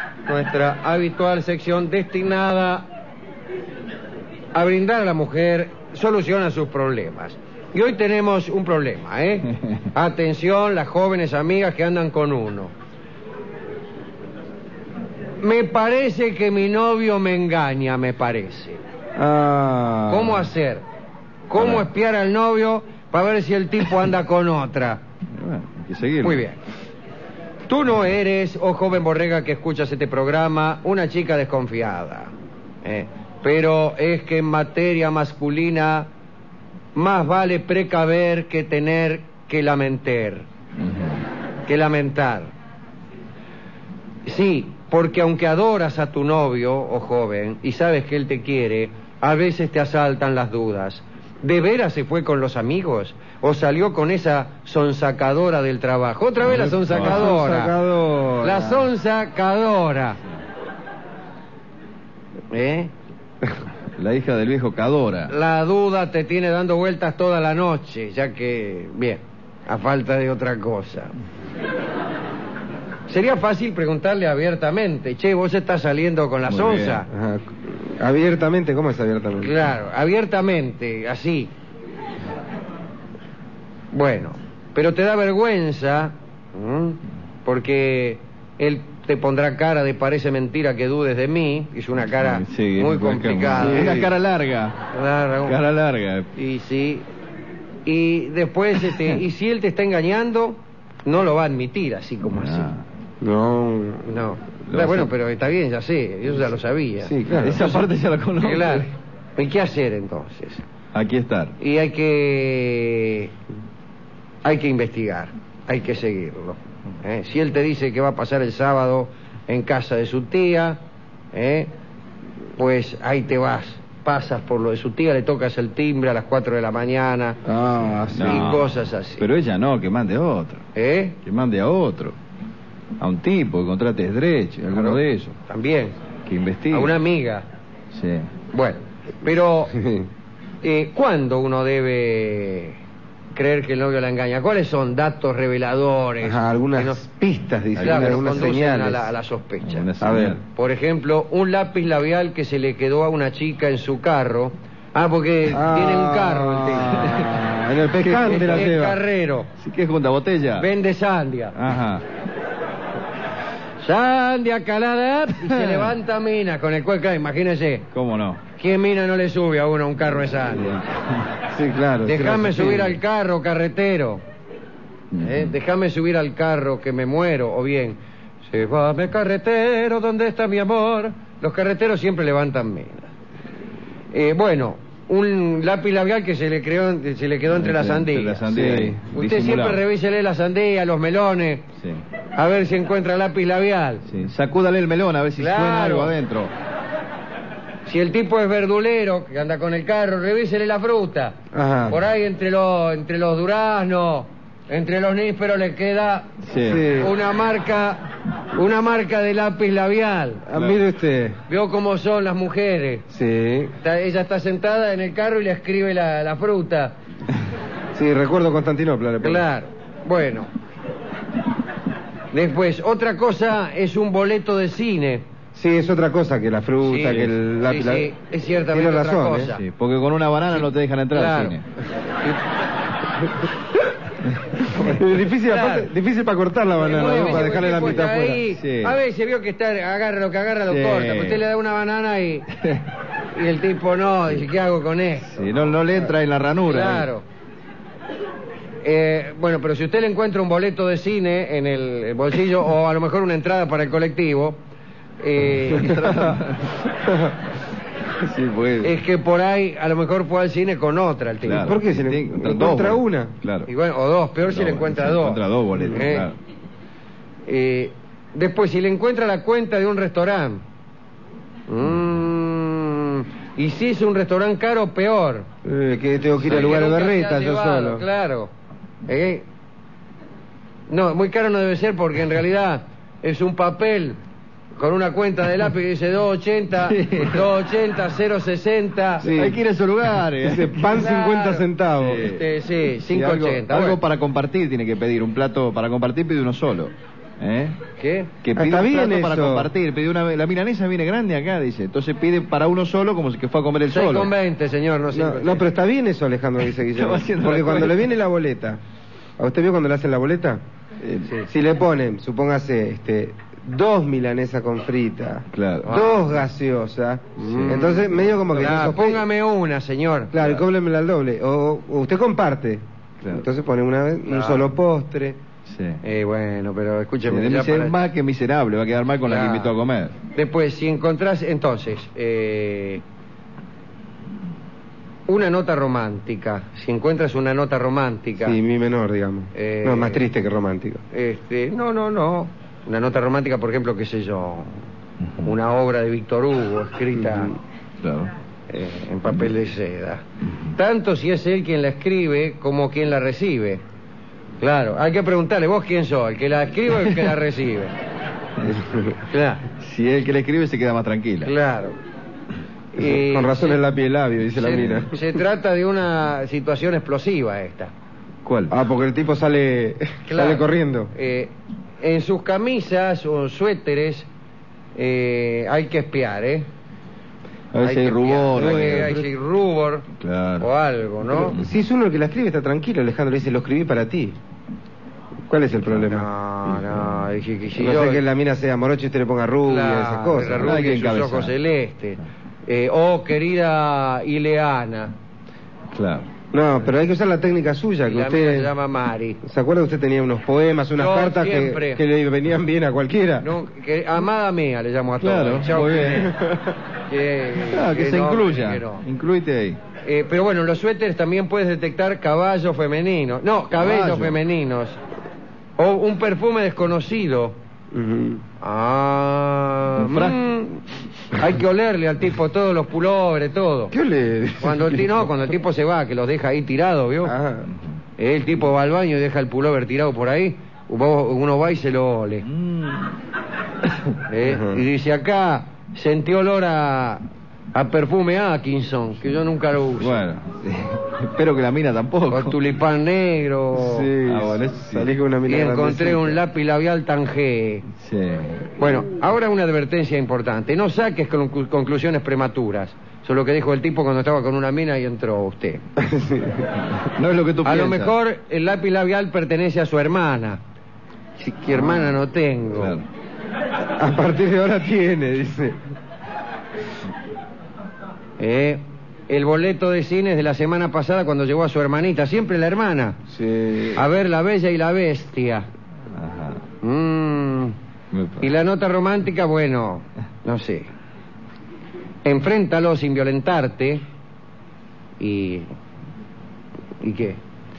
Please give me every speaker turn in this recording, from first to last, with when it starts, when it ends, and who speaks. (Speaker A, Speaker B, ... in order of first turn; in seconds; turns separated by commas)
Speaker A: 0.3-2.9, Speaker A: 4.5-12.7, Speaker A: 15.4-18.8, Speaker B: 19.2-20.5, Speaker A: 20.1-20.8, Speaker A: 21.5-25.0, Speaker C: 21.6-21.9, Speaker C: 25.4-26.4, Speaker A: 26.2-26.6, Speaker A: 27.7-32.3, Speaker A: 32.8-36.1, Speaker A: 37.0-40.5, Speaker C: 40.8-41.2, Speaker A: 41.7-42.5, Speaker A: 44.3-57.8, Speaker B: 56.4-58.9, Speaker C: 56.5-57.4, Speaker A: 58.4-60.2, Speaker A: 62.5-62.9, Speaker C: 64.0-65.3, Speaker A: 65.3-71.1, Speaker A: 73.1-77.1, Speaker C: 76.5-77.0, Speaker B: 77.1-79.5, Speaker A: 79.4-81.5, Speaker A: 83.9-94.0, Speaker C: 92.2-94.8, Speaker B: 93.5-94.1, Speaker A: 94.9-95.6, Speaker C: 95.5-96.3, Speaker A: 96.4-97.0, Speaker A: 97.9-102.7, Speaker C: 102.3-102.8, Speaker B: 103.2-104.1, Speaker A: 104.1-110.6, Speaker C: 104.7-105.1, Speaker B: 107.0-107.6, Speaker C: 107.3-108.9, Speaker C: 110.9-111.5, Speaker A: 111.6-113.3, Speaker A: 114.4-120.8, Speaker A: 121.3-121.7, Speaker A: 122.6-127.4, Speaker B: 127.5-128.6, Speaker C: 128.1-130.6, Speaker A: 128.2-129.3, Speaker A: 130.8-131.2, Speaker C: 131.2-132.2, Speaker C: 133.0-135.3, Speaker A: 134.7-135.9, Speaker C: 136.3-136.9, Speaker A: 136.7-137.4, Speaker C: 137.9-138.3, Speaker A: 138.5-139.7, Speaker B: 139.7-140.1, Speaker A: 140.6-142.8, Speaker A: 143.3-147.0, Speaker B: 146.2-149.1, Speaker C: 147.8-148.5, Speaker A: 147.8-149.9, Speaker C: 149.6-150.4, Speaker B: 150.0-150.4, Speaker A: 150.5-157.2, Speaker B: 155.5-159.0, Speaker C: 156.9-157.5, Speaker C: 158.0-158.7, Speaker A: 158.3-159.5, Speaker C: 159.6-160.7, Speaker A: 160.6-161.6, Speaker C: 161.6-162.0, Speaker A: 163.8-167.9, Speaker C: 165.4-165.9, Speaker C: 167.9-168.4, Speaker A: 168.6-170.8, Speaker C: 170.4-171.3, Speaker B: 171.5-173.0, Speaker A: 172.1-174.2, Speaker C: 175.1-175.6, Speaker A: 175.2-183.1, Speaker A: 184.1-188.5, Speaker C: 187.5-189.8, Speaker B: 188.5-189.0, Speaker A: 189.1-191.7, Speaker A: 192.3-194.0, Speaker C: 194.1-196.5, Speaker A: 195.4-196.2, Speaker A: 197.9-201.4, Speaker B: 201.5-202.0, Speaker A: 201.9-206.4, Speaker C: 206.4-206.9, Speaker B: 206.6-207.1, Speaker A: 206.9-208.0, Speaker A: 208.5-210.4, Speaker B: 210.5-211.4, Speaker C: 210.5-210.8, Speaker A: 211.5-213.1, Speaker B: 213.1-213.7, Speaker A: 213.8-217.0, Speaker B: 217.9-219.4, Speaker A: 219.2-220.5, Speaker A: 222.3-225.2, Speaker B: 225.6-228.1, Speaker A: 226.8-229.6, Speaker C: 227.1-227.3, Speaker B: 228.7-229.5, Speaker C: 229.5-231.7, Speaker A: 230.5-231.6, Speaker B: 234.7-238.4, Speaker A: 235.5-235.9, Speaker A: 236.8-242.5, Speaker C: 237.0-237.8, Speaker C: 238.5-239.0, Speaker C: 240.7-241.5, Speaker C: 242.6-242.8, Speaker A: 243.3-245.3, Speaker C: 245.3-247.1, Speaker A: 246.7-247.2, Speaker A: 248.8-254.6, Speaker A: 255.2-256.0, Speaker C: 255.7-256.8, Speaker B: 257.0-257.3, Speaker C: 258.2-258.9, Speaker A: 258.8-261.7, Speaker C: 261.4-263.7, Speaker B: 261.6-263.3, Speaker A: 263.7-266.3, Speaker C: 264.5-266.4, Speaker A: 267.5-270.6, Speaker A: 271.7-275.5, Speaker B: 275.6-278.0, Speaker A: 276.5-278.5, Speaker C: 276.5-276.8, Speaker A: 279.1-279.4, Speaker A: 280.9-284.2, Speaker A: 284.8-289.3, Speaker C: 286.8-287.5, Speaker B: 289.2-289.6, Speaker C: 289.2-291.1, Speaker B: 290.4-292.3, Speaker A: 291.0-291.6, Speaker C: 292.0-292.5, Speaker A: 292.2-294.0, Speaker C: 293.0-297.8, Speaker A: 298.0-298.3, Speaker C: 298.4-304.3, Speaker B: 298.6-299.7, Speaker A: 303.9-305.6, Speaker B: 305.1-308.8, Speaker C: 306.7-308.1, Speaker B: 309.4-310.6, Speaker C: 311.0-311.3, Speaker B: 311.5-319.3, Speaker C: 315.5-316.1, Speaker A: 315.9-316.2, Speaker A: 317.4-320.3, Speaker C: 317.4-318.9, Speaker B: 320.3-325.4, Speaker A: 324.3-324.7, Speaker C: 325.7-326.0, Speaker A: 326.0-328.0, Speaker C: 327.3-330.1, Speaker A: 329.2-329.8, Speaker A: 330.3-333.0, Speaker A: 335.3-338.6, Speaker B: 338.4-341.0, Speaker A: 339.5-340.2, Speaker A: 341.1-344.8, Speaker A: 345.4-347.6, Speaker B: 347.2-347.5, Speaker C: 348.0-348.3, Speaker A: 348.7-350.2, Speaker A: 350.7-353.8, Speaker A: 354.6-357.9, Speaker B: 358.7-359.1, Speaker A: 359.3-359.6, Speaker C: 359.8-361.5, Speaker A: 361.4-362.0, Speaker A: 363.0-363.8, Speaker B: 363.0-365.2, Speaker A: 364.6-367.9, Speaker C: 368.4-368.7, Speaker B: 368.7-371.1, Speaker A: 370.3-374.3, Speaker A: 374.9-376.7, Speaker C: 377.7-379.2, Speaker A: 377.8-380.1, Speaker B: 378.6-379.3, Speaker C: 380.2-380.7, Speaker A: 380.6-381.6, Speaker B: 381.3-384.4, Speaker B: 385.5-386.3, Speaker A: 386.1-388.2, Speaker C: 386.7-387.3, Speaker B: 387.8-390.8, Speaker A: 389.7-395.1, Speaker C: 390.5-391.5, Speaker C: 395.9-396.3, Speaker B: 396.5-398.7, Speaker A: 398.0-399.4, Speaker B: 399.4-403.5, Speaker A: 401.0-402.0, Speaker A: 403.4-406.4, Speaker C: 405.2-406.3, Speaker B: 406.0-406.8, Speaker A: 407.1-409.1, Speaker C: 407.7-409.8, Speaker A: 410.0-415.0, Speaker C: 413.7-414.4, Speaker A: 415.8-417.6, Speaker B: 417.9-418.4, Speaker A: 418.6-423.9, Speaker C: 420.0-420.4, Speaker B: 423.9-425.3, Speaker A: 424.6-427.3, Speaker B: 427.2-427.7, Speaker A: 428.2-432.4, Speaker C: 432.5-433.2, Speaker A: 434.3-437.2, Speaker B: 434.4-434.8, Speaker A: 437.7-440.2, Speaker C: 440.0-442.6, Speaker A: 442.3-444.1, Speaker B: 443.8-446.4, Speaker C: 444.3-445.1, Speaker A: 445.5-447.9, Speaker C: 448.0-448.7, Speaker A: 448.8-455.8, Speaker B: 456.0-456.7, Speaker C: 457.0-458.1, Speaker A: 457.6-460.6, Speaker B: 461.4-462.2, Speaker A: 461.7-463.0, Speaker C: 462.8-463.1, Speaker B: 464.0-465.8, Speaker A: 468.4-473.2, Speaker B: 473.3-474.1, Speaker A: 474.0-475.7, Speaker C: 476.1-476.6, Speaker A: 476.8-477.8, Speaker C: 478.1-478.5, Speaker A: 478.4-480.9, Speaker A: 482.2-484.0, Speaker A: 485.2-485.7, Speaker A: 487.0-487.4